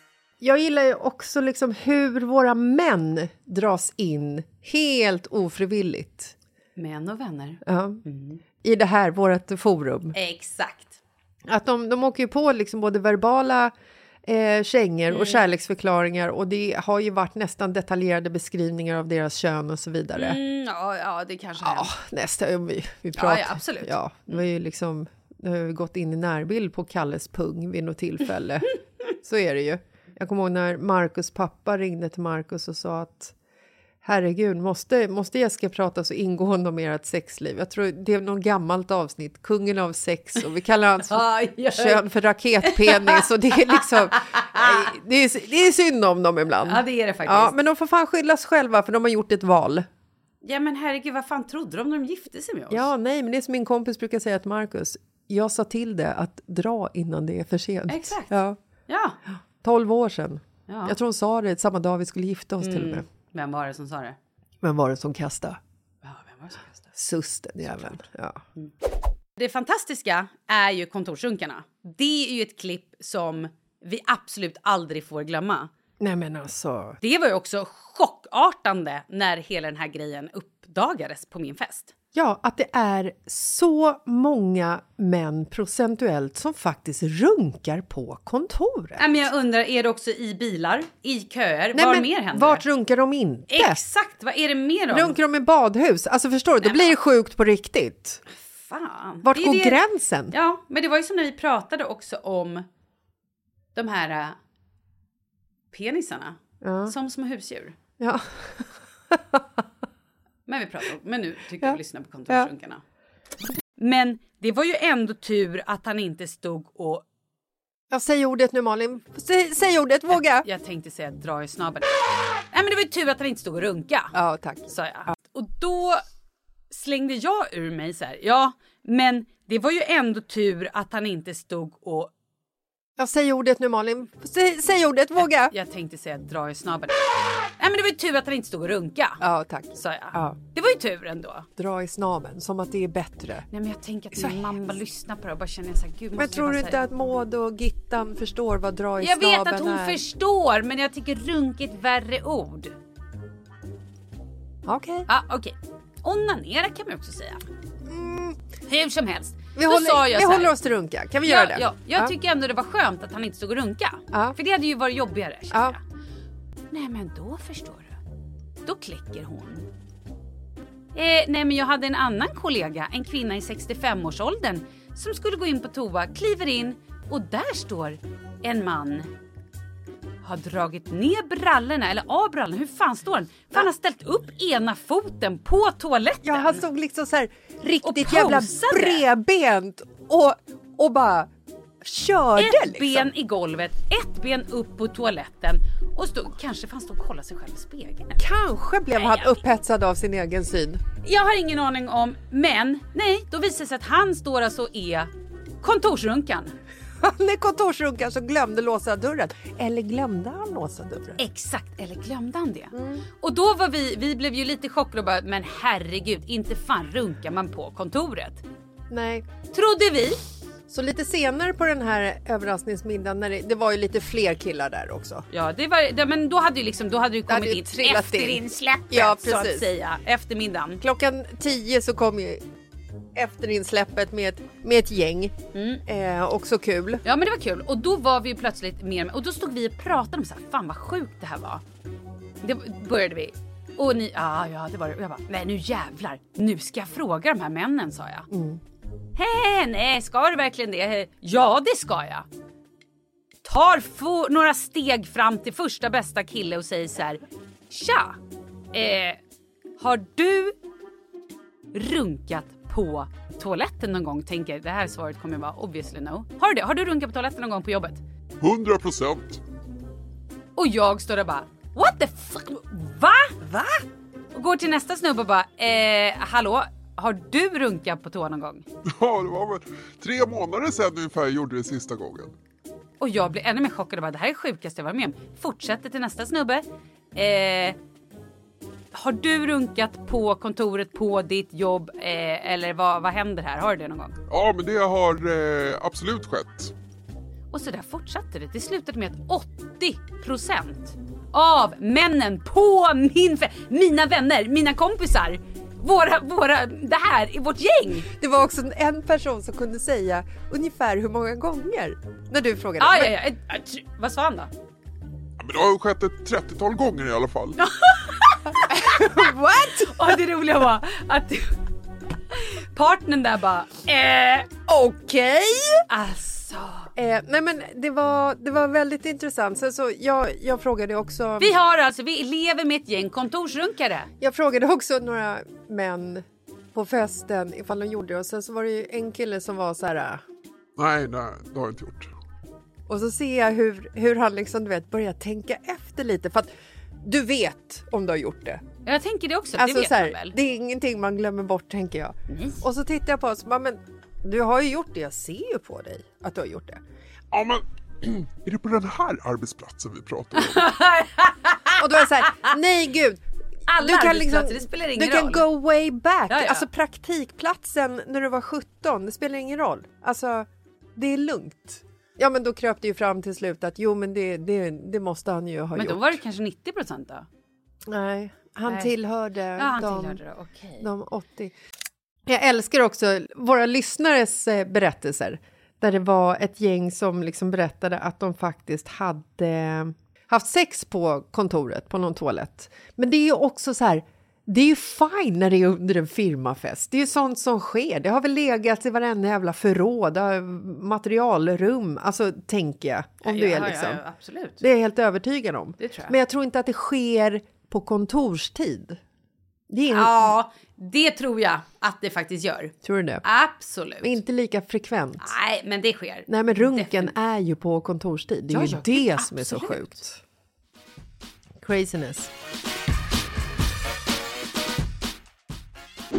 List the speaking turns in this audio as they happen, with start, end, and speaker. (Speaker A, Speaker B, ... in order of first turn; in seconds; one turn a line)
Speaker A: 0.4-6.3
Speaker B: 6.8-8.4
Speaker A: 7.6-8.0
Speaker A: 8.6-10.1
Speaker B: 10.1-11.0
Speaker A: 11.5-13.7
Speaker A: 14.2-20.4
Speaker B: 15.1-15.4
Speaker B: 20.1-21.9
Speaker A: 21.6-33.3
Speaker B: 23.1-24.4
Speaker A: 34.0-49.9
Speaker B: 41.1-42.0
Speaker B: 42.6-44.9
Speaker B: 46.6-47.5
Speaker B: 50.4-52.9
Speaker A: 52.7-58.6
Speaker B: 57.9-58.3
Speaker B: 58.9-59.2
Speaker A: 59.6-63.0
Speaker B: 60.7-61.0
Speaker B: 62.6-64.2
Speaker A: 64.6-65.6
Speaker B: 66.0-66.8
Speaker A: 66.9-68.4
Speaker B: 69.4-75.7
Speaker A: 76.0-77.0
Speaker B: 77.0-81.9
Speaker A: 82.1-89.2
Speaker B: 89.0-92.6
Speaker A: 91.7-93.8
Speaker B: 93.5-95.2
Speaker A: 94.9-98.2
Speaker B: 96.6-97.0
Speaker B: 98.4-102.7
Speaker A: 99.2-100.3
Speaker B: 103.7-104.4
Speaker B: 105.7-107.8
Speaker A: 106.6-106.9
Speaker A: 108.0-109.6
Speaker B: 110.5-112.8
Speaker B: 113.8-117.0
Speaker A: 117.9-120.5
Speaker B: 120.1-124.1
Speaker A: 124.1-124.7
Speaker B: 124.7-126.0
Speaker B: 126.7-132.1
Speaker A: 133.0-135.5
Speaker B: 135.5-139.2
Speaker A: 139.2-140.4
Speaker B: 139.7-141.5
Speaker A: 141.6-143.5
Speaker B: 143.5-146.8
Speaker A: 144.1-144.4
Speaker A: 146.2-150.0
Speaker B: 149.0-152.7
Speaker A: 154.6-155.1
Speaker B: 155.1-157.4
Speaker A: 157.8-158.4
Speaker B: 158.7-160.5
Speaker A: 159.6-162.1
Speaker B: 161.2-165.8
Speaker A: 165.5-165.8
Speaker B: 166.7-168.0
Speaker B: 168.6-169.7
Speaker B: 170.9-179.1
Speaker B: 180.2-186.6
Speaker A: 186.2-191.3
Speaker B: 187.8-189.0
Speaker A: 191.8-193.1
Speaker B: 192.4-198.2
Speaker A: 198.2-200.8
Speaker B: 198.9-199.4
Speaker B: 201.0-205.1
Speaker B: 205.6-206.5
Speaker A: 207.0-211.2
Speaker B: 211.2-218.4
Speaker A: 212.7-213.1
Speaker A: 218.9-219.3
Speaker B: 219.5-220.2
Speaker A: 220.7-225.2
Speaker B: 225.3-230.8
Speaker A: 227.3-229.7
Speaker A: 230.8-232.4
Speaker A: 233.1-237.0
Speaker B: 235.5-235.8
Speaker B: 237.0-241.6
Speaker B: 242.4-248.3
Speaker A: 248.3-248.6
Speaker B: 249.1-252.3
Speaker B: 253.4-258.2
Speaker B: 258.7-259.2
Speaker B: 259.8-260.5
Speaker B: 261.7-268.0
Speaker C: 268.4-269.4
Speaker B: 270.6-278.6
Speaker C: 278.9-282.3
Speaker B: 283.0-286.6
Speaker B: 287.1-287.8
Speaker B: 288.9-294.2
Speaker C: 294.3-296.7
Speaker B: 297.5-308.1
Speaker A: 308.2-313.1
Speaker B: 312.8-314.5
Speaker C: 315.4-317.6
Speaker B: 317.6-319.2
Speaker A: 318.6-320.2
Speaker B: 319.8-321.6
Speaker B: 322.3-324.5
Speaker A: 324.7-325.9
Speaker B: 325.9-326.9
Speaker A: 326.9-331.6
Speaker B: 331.4-334.1
Speaker A: 334.2-340.2
Speaker C: 340.8-342.1
Speaker A: 342.9-346.5
Speaker A: 347.0-348.6
Speaker B: 348.8-350.3
Speaker A: 349.6-356.8
Speaker B: 352.3-352.6
Speaker C: 357.3-360.8
Speaker B: 360.4-362.5
Speaker A: 361.8-363.2
Speaker B: 363.7-365.4
Speaker A: 363.8-376.2
Speaker B: 366.3-366.6
Speaker B: 375.7-377.3
Speaker A: 377.9-380.2
Speaker B: 378.7-378.9
Speaker B: 379.6-380.9
Speaker A: 380.8-381.5
Speaker A: 382.2-404.0
Speaker B: 403.2-404.6
Speaker A: 404.6-409.0
Speaker B: 405.8-406.1
Speaker A: 409.7-410.3
Speaker B: 409.9-414.2
Speaker A: 412.8-413.2
Speaker A: 414.0-415.3
Speaker B: 415.2-417.1
Speaker A: 416.3-420.2
Speaker B: 418.5-419.8
Speaker A: 421.6-422.3